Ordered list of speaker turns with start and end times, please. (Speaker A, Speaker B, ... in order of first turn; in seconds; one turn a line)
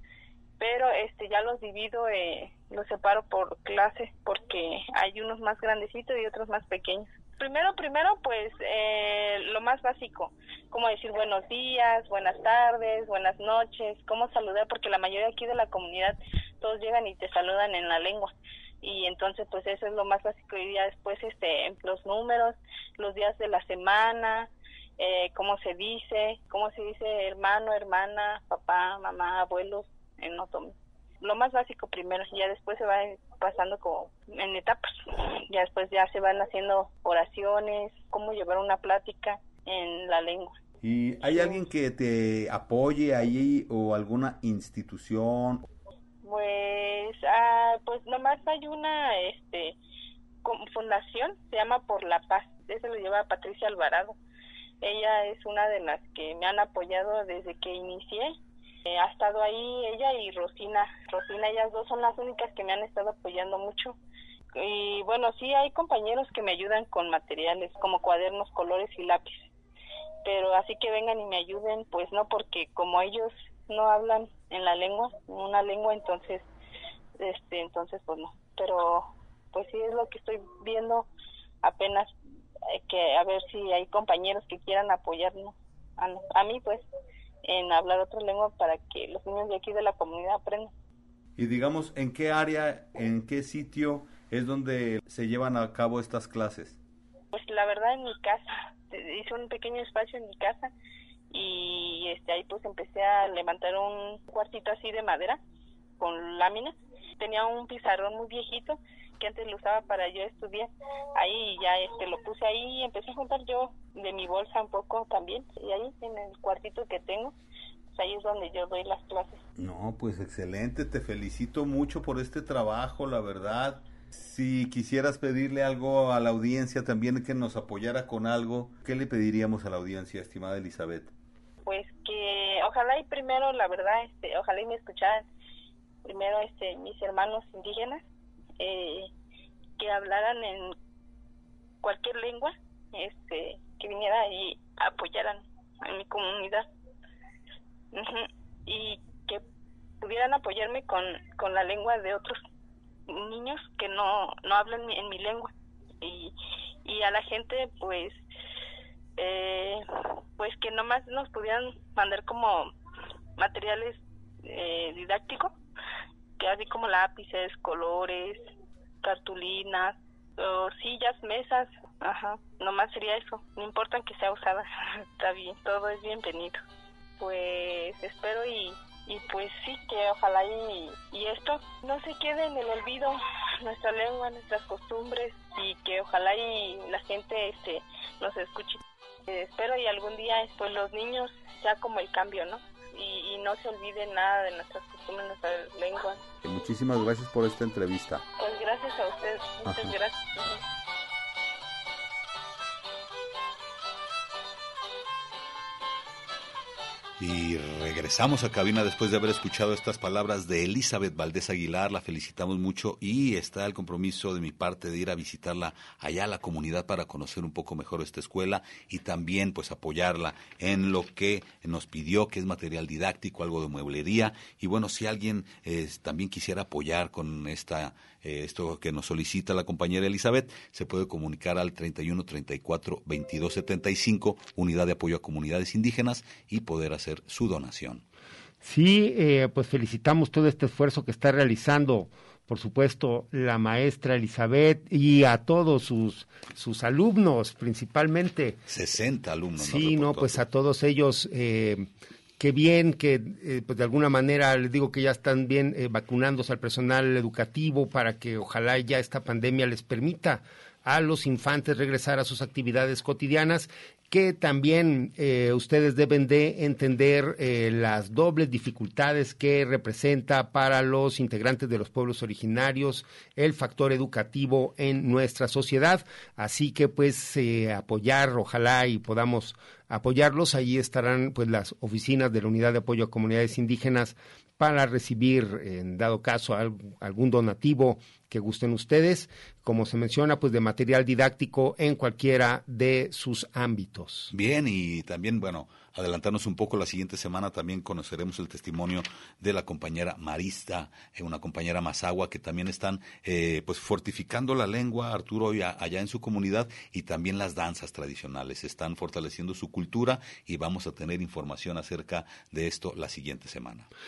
Speaker A: 0.6-40.5
Speaker B: 40.8-45.6
Speaker A: 41.3-41.6
Speaker A: 46.2-49.8
Speaker A: 50.4-54.1
Speaker A: 54.8-64.0
Speaker A: 64.5-69.5
Speaker A: 70.2-76.5
Speaker A: 77.2-81.1
Speaker A: 81.6-82.1
Speaker A: 82.7-86.9
Speaker A: 87.4-90.7
Speaker B: 91.4-96.8
Speaker A: 97.3-100.7
Speaker A: 101.3-105.4
Speaker A: 106.0-117.3
Speaker A: 117.9-119.4
Speaker B: 119.6-131.1
Speaker A: 131.6-135.2
Speaker A: 136.0-138.0
Speaker A: 138.6-139.1
Speaker A: 139.8-140.7
Speaker A: 141.8-146.6
Speaker A: 147.9-149.4
Speaker A: 150.0-152.4
Speaker A: 153.1-155.5
Speaker A: 156.0-156.3
Speaker A: 156.8-158.2
Speaker A: 159.2-159.8
Speaker A: 160.4-162.7
Speaker A: 163.4-165.5
Speaker A: 166.4-168.4
Speaker A: 169.0-176.6
Speaker A: 177.2-196.2
Speaker B: 196.4-198.2
Speaker A: 198.4-200.6
Speaker B: 207.2-238.0
Speaker C: 238.6-248.6
Speaker B: 248.7-250.4
Speaker C: 249.6-251.9
Speaker C: 252.4-294.3
Speaker B: 294.3-313.9